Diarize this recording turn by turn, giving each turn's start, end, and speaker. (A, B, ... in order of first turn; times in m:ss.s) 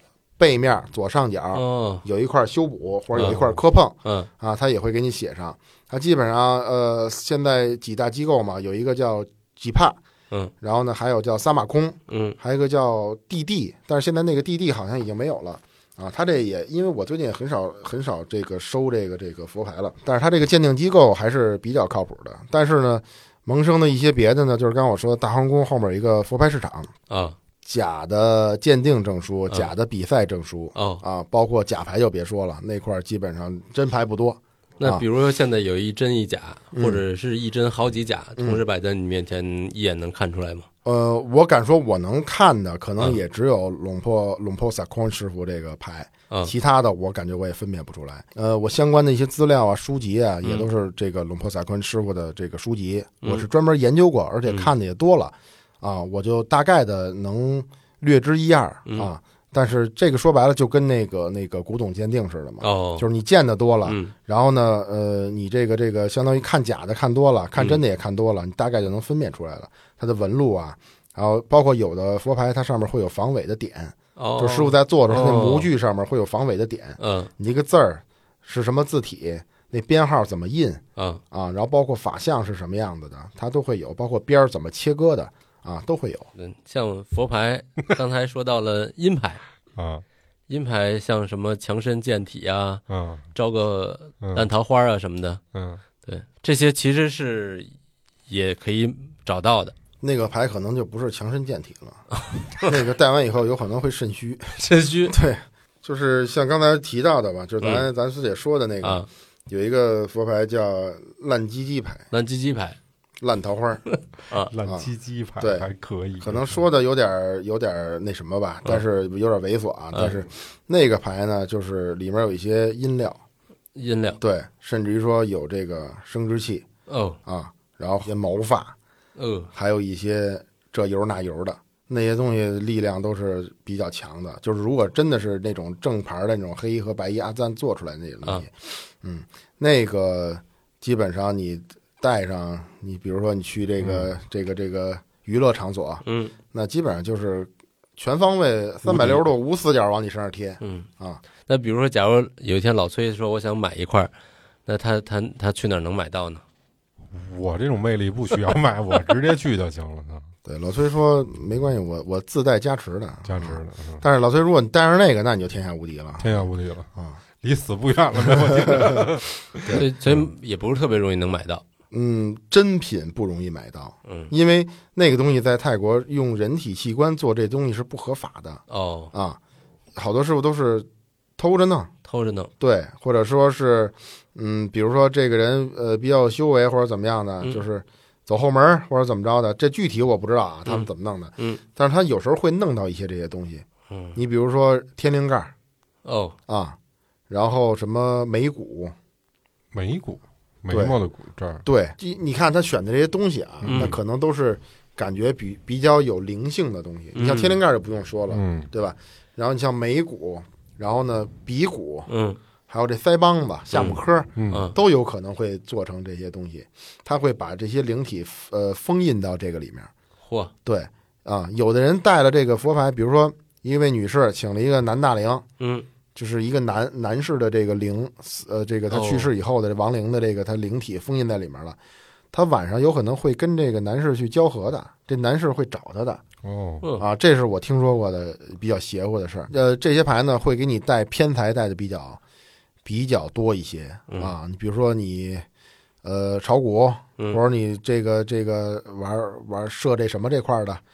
0:00.4-0:10.0 A
0:01.5-0:02.0 B
0:03.2-0:04.3 B
0:10.6-0:26.9 A
0:12.1-0:12.4 B
0:27.1-0:27.4 B
0:27.6-0:35.0 A
0:30.8-0:31.0 B
0:34.8-0:40.7 B
0:36.7-0:37.0 A
0:40.8-1:26.3 A
0:53.2-0:53.5 B
1:02.6-1:03.0 B
1:03.8-1:04.1 B
1:14.2-1:15.7 B
1:17.0-1:17.3 B
1:21.0-1:21.2 B
1:26.4-1:29.4 B
1:29.8-1:30.0 C
1:30.5-1:32.8 B
1:32.9-1:33.2 C
1:33.3-1:35.4 B
1:34.2-1:34.5 C
1:35.5-1:35.8 C
1:36.0-1:37.7 B
1:38.3-1:39.7 B
1:40.0-1:42.0 A
1:42.2-1:42.7 B
1:42.6-1:44.5 A
1:44.6-1:45.1 B
1:45.1-1:52.0 A
1:47.6-1:47.9 B
1:52.1-1:52.8 B
1:53.2-1:53.8 A
1:54.5-1:56.6 C
1:55.4-1:55.7 A
1:56.2-2:03.2 A
2:03.8-2:04.2 B
2:04.2-2:06.6 A
2:06.9-2:07.2 B
2:07.2-2:08.7 A
2:09.2-2:09.5 B
2:09.5-2:31.2 A
2:26.0-2:26.3 B
2:28.8-2:29.2 C
2:30.6-2:30.9 B
2:31.4-2:34.1 B
2:34.6-2:36.4 B
2:37.1-2:40.3 C
2:40.4-2:47.2 A
2:43.2-2:44.0 C
2:46.2-2:46.9 C
2:47.4-2:50.3 C
2:48.7-2:49.0 A
2:49.7-2:51.6 B
2:51.9-2:58.6 A
2:54.0-2:54.3 B
2:58.7-2:59.1 B
2:59.1-2:59.4 A
3:00.0-3:00.9 A
3:01.4-3:01.9 A
3:02.0-3:02.5 B
3:02.6-3:15.5 A
3:10.7-3:11.6 B
3:13.9-3:14.2 B
3:16.0-3:16.4 B
3:16.5-3:16.8 A
3:17.3-3:18.9 A
3:19.7-3:21.6 C
3:20.7-3:21.0 A
3:21.6-3:32.1 A
3:23.6-3:23.9 C
3:23.7-3:24.0 B
3:27.1-3:27.6 B
3:28.3-3:28.7 C
3:32.1-3:32.4 B
3:32.7-3:39.9 A
3:33.7-3:34.0 B
3:34.4-3:34.7 C
3:40.2-3:40.5 B
3:40.6-3:45.4 A
3:45.6-3:45.8 B
3:46.1-3:51.8 A
3:48.9-3:49.3 B
3:52.3-3:56.2 A
3:56.4-3:56.8 C
3:57.0-4:02.2 A
4:02.8-4:05.4 A
4:06.0-4:10.8 A